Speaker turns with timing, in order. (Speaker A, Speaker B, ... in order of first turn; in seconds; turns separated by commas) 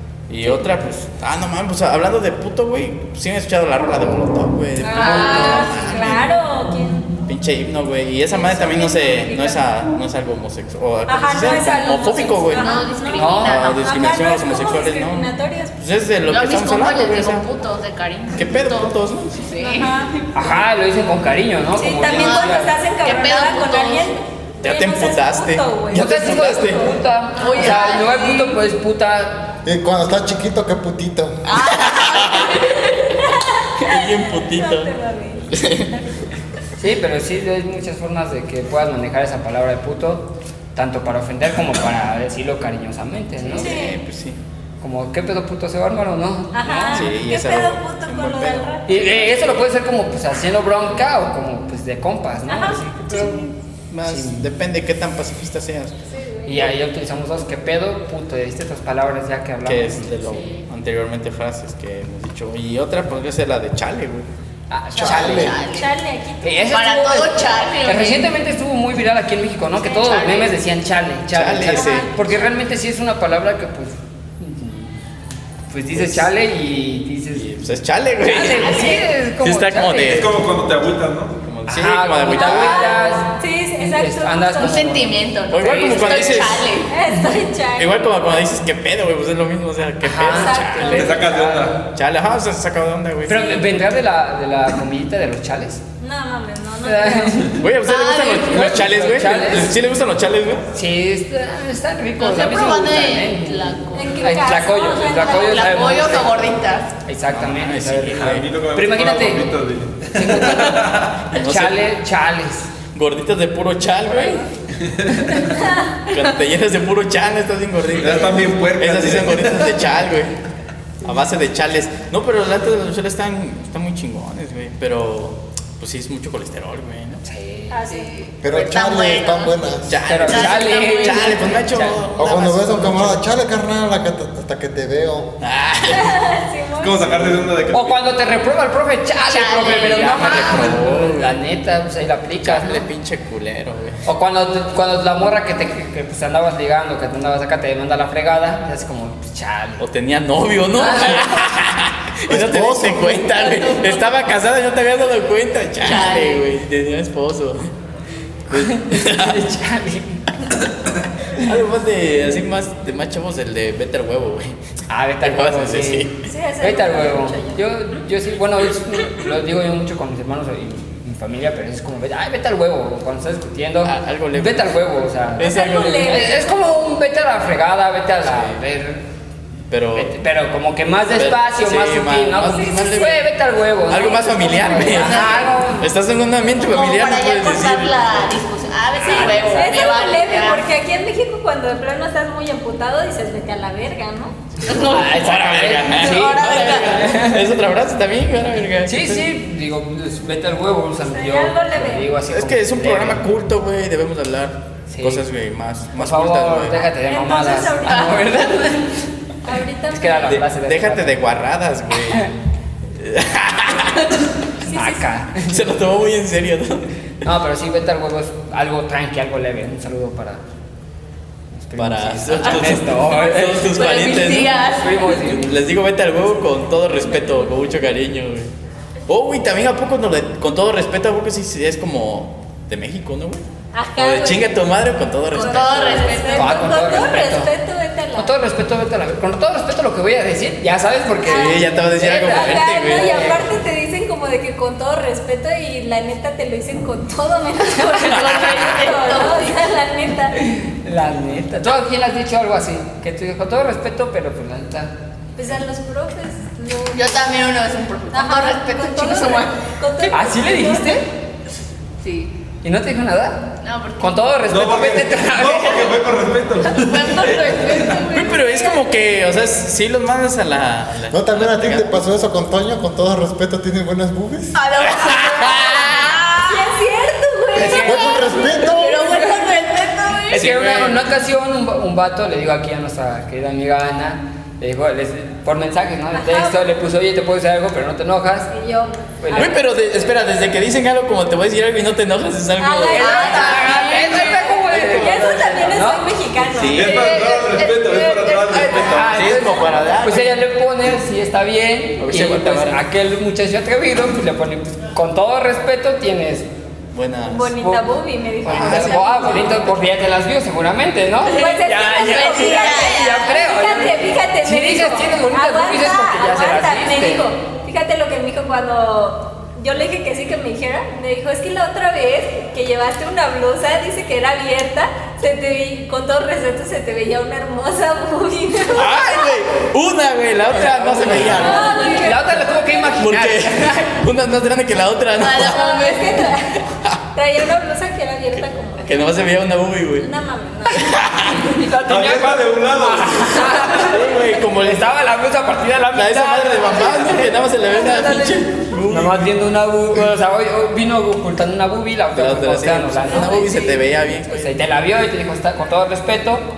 Speaker A: 0.3-6.3, Speaker B: 0.4-0.8, Speaker C: 4.8-7.1, Speaker D: 5.0-5.8, Speaker A: 7.2-12.7, Speaker C: 8.3-9.6, Speaker C: 11.1-15.8, Speaker D: 12.5-13.8, Speaker B: 13.2-13.5, Speaker A: 13.4-17.5, Speaker D: 16.3-19.9, Speaker A: 18.4-19.4, Speaker C: 19.6-20.1, Speaker B: 20.3-22.7, Speaker C: 21.8-26.9, Speaker D: 22.1-24.2, Speaker A: 24.6-26.8, Speaker B: 25.9-29.5, Speaker D: 27.4-28.6, Speaker E: 29.6-31.4, Speaker D: 31.5-32.8, Speaker A: 32.0-32.5, Speaker C: 32.5-35.5, Speaker A: 33.8-34.9, Speaker A: 35.5-36.0, Speaker B: 36.8-43.7, Speaker A: 43.5-44.4, Speaker C: 43.6-44.0, Speaker B: 44.8-47.1, Speaker C: 46.5-49.2, Speaker A: 46.9-49.7, Speaker B: 48.9-53.4, Speaker C: 52.5-53.4, Speaker A: 53.9-55.9, Speaker B: 54.1-54.5, Speaker C: 56.1-56.7, Speaker B: 56.5-60.5, Speaker A: 59.7-64.3, Speaker B: 64.7-65.5, Speaker E: 65.0-65.5, Speaker D: 65.1-65.9, Speaker C: 65.7-67.2, Speaker B: 66.4-75.0, Speaker D: 66.7-68.3, Speaker C: 69.8-70.3, Speaker D: 70.0-70.5, Speaker A: 71.3-72.1, Speaker C: 71.6-72.3, Speaker B: 75.7-77.5, Speaker A: 76.0-76.3, Speaker A: 77.3-80.5, Speaker B: 78.2-80.3, Speaker F: 80.1-81.3, Speaker A: 81.4-83.0, Speaker B: 81.7-86.5, Speaker C: 82.3-84.9, Speaker D: 84.6-86.9, Speaker A: 85.5-86.7, Speaker C: 86.9-88.2, Speaker A: 87.8-91.3, Speaker B: 90.0-91.6, Speaker C: 90.2-91.6, Speaker F: 90.8-91.8, Speaker A: 91.9-93.6, Speaker B: 93.3-95.8, Speaker C: 93.3-93.6, Speaker C: 96.0-97.5, Speaker B: 96.8-97.7, Speaker A: 97.6-100.6, Speaker D: 97.8-98.7, Speaker B: 98.5-99.7, Speaker B: 100.7-109.5, Speaker D: 102.2-104.1, Speaker C: 103.9-106.2, Speaker D: 105.4-106.9, Speaker A: 107.3-108.5, Speaker F: 108.2-111.2, Speaker B: 110.1-112.7, Speaker A: 111.2-111.8, Speaker A: 112.9-114.5, Speaker B: 115.2-115.5, Speaker A: 116.1-120.3, Speaker F: 118.0-119.7, Speaker A: 121.0-127.2, Speaker B: 127.2-127.8, Speaker C: 127.7-128.1, Speaker D: 128.1-129.7, Speaker E: 128.4-130.0, Speaker A: 129.8-133.2, Speaker B: 130.1-132.0, Speaker D: 130.2-131.4, Speaker E: 132.2-135.3, Speaker A: 135.4-136.2, Speaker C: 135.9-137.2, Speaker F: 136.8-138.0, Speaker B: 137.7-142.8, Speaker D: 139.3-140.6, Speaker A: 139.7-141.4, Speaker A: 142.4-144.0, Speaker B: 144.1-149.8, Speaker A: 149.8-157.7, Speaker B: 150.8-151.4, Speaker E: 152.3-153.2, Speaker D: 153.2-154.1, Speaker D: 155.8-156.4, Speaker A: 158.5-159.4, Speaker B: 158.5-160.2, Speaker A: 161.4-164.6, Speaker B: 164.9-179.0, Speaker A: 165.2-166.2, Speaker C: 166.3-167.7, Speaker A: 173.8-174.7, Speaker A: 175.4-176.2, Speaker C: 175.4-176.5, Speaker A: 178.2-178.6, Speaker A: 179.7-180.2, Speaker B: 180.0-185.9, Speaker A: 181.2-183.3, Speaker C: 182.5-182.9, Speaker A: 183.9-188.2, Speaker C: 184.1-185.0, Speaker D: 184.9-185.6, Speaker D: 186.6-190.7, Speaker B: 189.0-189.8, Speaker C: 189.0-194.3, Speaker A: 194.6-199.2, Speaker D: 194.7-195.2, Speaker B: 194.7-197.5, Speaker D: 196.0-197.0, Speaker B: 198.9-203.2, Speaker C: 201.1-202.1, Speaker A: 202.3-206.8, Speaker B: 204.9-205.2, Speaker B: 206.0-209.0, Speaker C: 206.9-208.4, Speaker D: 207.9-208.3, Speaker C: 209.4-210.4, Speaker B: 209.9-211.2, Speaker A: 210.3-212.3, Speaker A: 212.9-214.0, Speaker C: 214.7-215.0, Speaker B: 214.7-215.6, Speaker A: 215.4-216.9, Speaker B: 217.2-220.4, Speaker B: 221.5-223.7, Speaker A: 221.8-224.6, Speaker D: 223.7-225.1, Speaker B: 224.7-225.6, Speaker A: 225.2-228.5, Speaker A: 229.1-233.4, Speaker C: 233.7-234.6, Speaker A: 234.0-236.1, Speaker C: 235.3-238.4, Speaker D: 235.3-236.7, Speaker B: 236.3-237.5, Speaker B: 238.2-243.5, Speaker C: 241.2-250.3, Speaker A: 241.3-243.4, Speaker D: 247.9-249.6, Speaker B: 250.4-254.9, Speaker C: 255.4-257.2, Speaker D: 256.9-260.1, Speaker C: 258.1-261.0, Speaker B: 260.1-261.0, Speaker D: 262.0-262.3, Speaker B: 262.6-265.9, Speaker D: 263.6-264.2, Speaker F: 264.5-267.4, Speaker D: 266.8-268.4, Speaker C: 267.7-268.8, Speaker A: 268.1-272.0, Speaker E: 271.1-274.5, Speaker D: 274.5-276.7, Speaker A: 274.9-275.8, Speaker C: 276.5-279.6, Speaker B: 277.6-278.3, Speaker E: 277.8-279.0, Speaker D: 278.7-280.5, Speaker B: 280.3-288.5, Speaker A: 280.3-281.0, Speaker C: 286.2-286.6, Speaker C: 288.5-289.7, Speaker B: 289.2-289.6, Speaker A: 289.4-293.5, Speaker C: 292.6-296.9, Speaker D: 292.9-294.2, Speaker B: 293.0-296.1, Speaker A: 294.7-295.2, Speaker A: 296.5-297.1, Speaker F: 296.7-299.4, Speaker B: 296.8-306.5, Speaker A: 299.1-300.4, Speaker A: 302.0-302.8, Speaker A: 306.9-307.5, Speaker C: 307.3-309.6, Speaker B: 308.4-317.2, Speaker A: 308.4-309.8, Speaker C: 311.3-329.4, Speaker D: 311.4-313.4, Speaker A: 328.7-331.6, Speaker B: 330.5-333.9, Speaker C: 331.2-333.0, Speaker D: 331.2-332.1, Speaker A: 333.0-335.6, Speaker D: 335.2-336.3, Speaker C: 335.3-336.6, Speaker C: 337.1-339.1, Speaker A: 338.9-340.1, Speaker C: 340.0-341.1, Speaker A: 340.7-341.7, Speaker B: 341.5-347.4, Speaker F: 341.9-343.8, Speaker A: 343.8-344.9, Speaker A: 345.9-349.4, Speaker C: 347.0-348.5, Speaker B: 348.9-353.7, Speaker A: 352.2-354.4, Speaker C: 353.0-354.6, Speaker B: 354.3-356.4